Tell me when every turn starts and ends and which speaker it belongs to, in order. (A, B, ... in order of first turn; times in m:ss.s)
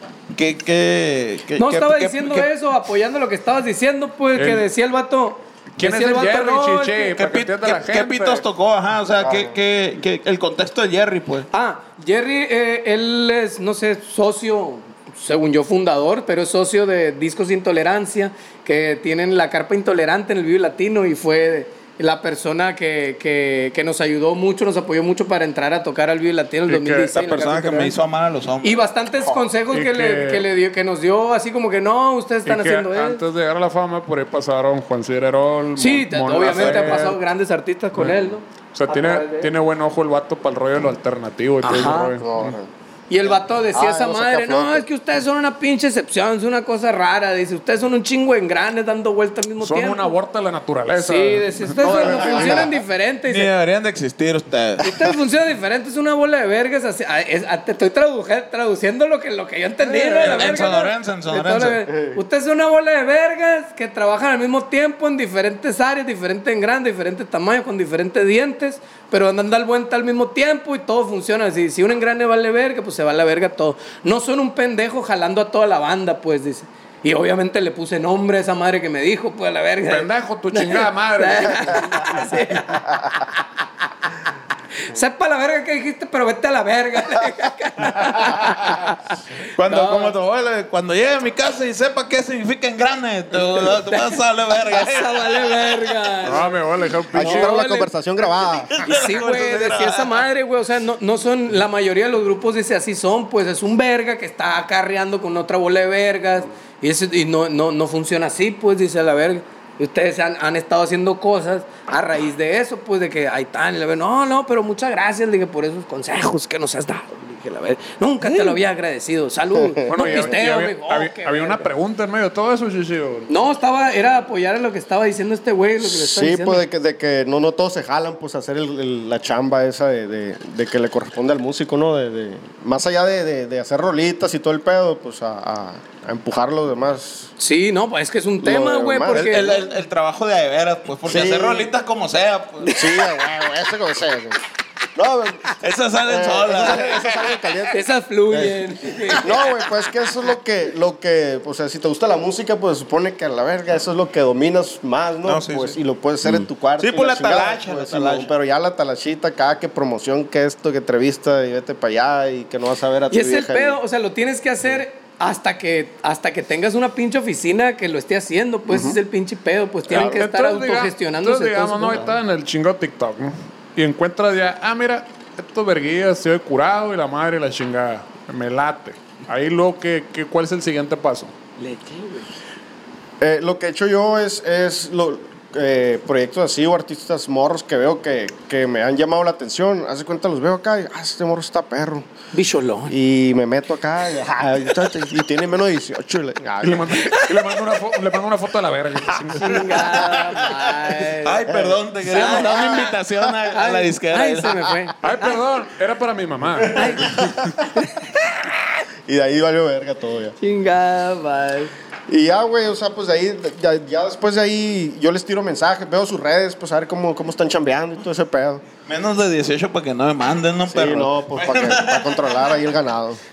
0:00.3-0:02.5 A
0:01.6-0:07.2 B
0:04.4-0:04.7 C
0:05.8-0:08.4 C
0:07.2-0:11.5 A
0:09.2-0:09.6 D
0:11.5-0:28.0 B
0:26.7-0:27.2 C
0:27.2-0:28.8 A
0:28.6-0:33.2 B
0:29.7-0:30.4 C
0:32.4-0:37.2 C
0:35.8-0:39.5 B
0:38.7-0:42.6 C
0:41.6-0:42.2 B
0:42.2-0:42.7 D
0:43.1-0:50.1 B
0:43.2-0:44.8 D
0:49.6-0:52.6 C
0:51.0-0:53.5 B
0:51.9-0:52.7 D
0:53.2-0:55.1 A
0:54.8-1:23.5 B
1:00.2-1:01.8 A
1:01.9-1:02.2 D
1:19.9-1:22.2 C
1:24.8-1:30.1 B
1:29.5-1:35.9 A
1:33.6-1:36.6 B
1:36.2-1:37.6 C
1:37.1-1:38.7 D
1:37.2-1:37.9 B
1:38.4-1:40.2 A
1:38.8-2:01.6 B
1:59.6-2:00.2 D
1:59.9-2:03.3 C
2:03.3-2:06.6 B
2:05.8-2:17.3 D
2:17.4-2:19.5 B
2:18.4-2:19.6 D
2:19.1-2:22.7 A
2:21.0-2:21.7 D
2:22.6-2:23.2 B
2:22.8-2:24.4 D
2:24.9-2:27.8 D
2:25.6-2:27.4 A
2:27.7-2:29.4 B
2:29.2-2:43.8 D
2:35.2-2:35.8 A
2:36.3-2:38.3 A
2:43.1-2:52.1 B
2:48.7-2:49.0 D
2:49.9-3:01.3 C
2:49.9-2:50.2 D
3:01.6-3:02.3 B
3:03.2-3:12.1 D
3:12.3-3:12.9 B
3:12.9-3:17.1 D
3:16.6-3:20.0 C
3:16.9-3:17.6 B
3:19.4-3:21.4 B
3:20.1-3:24.7 A
3:21.5-3:21.8 D
3:22.0-3:23.0 B
3:23.5-3:25.4 B
3:25.0-3:27.5 C
3:26.7-3:27.9 B
3:27.0-3:27.5 D
3:29.1-3:30.4 D
3:30.4-3:31.7 B
3:32.1-3:38.6 D
3:38.8-3:42.5 A
3:40.7-3:43.2 D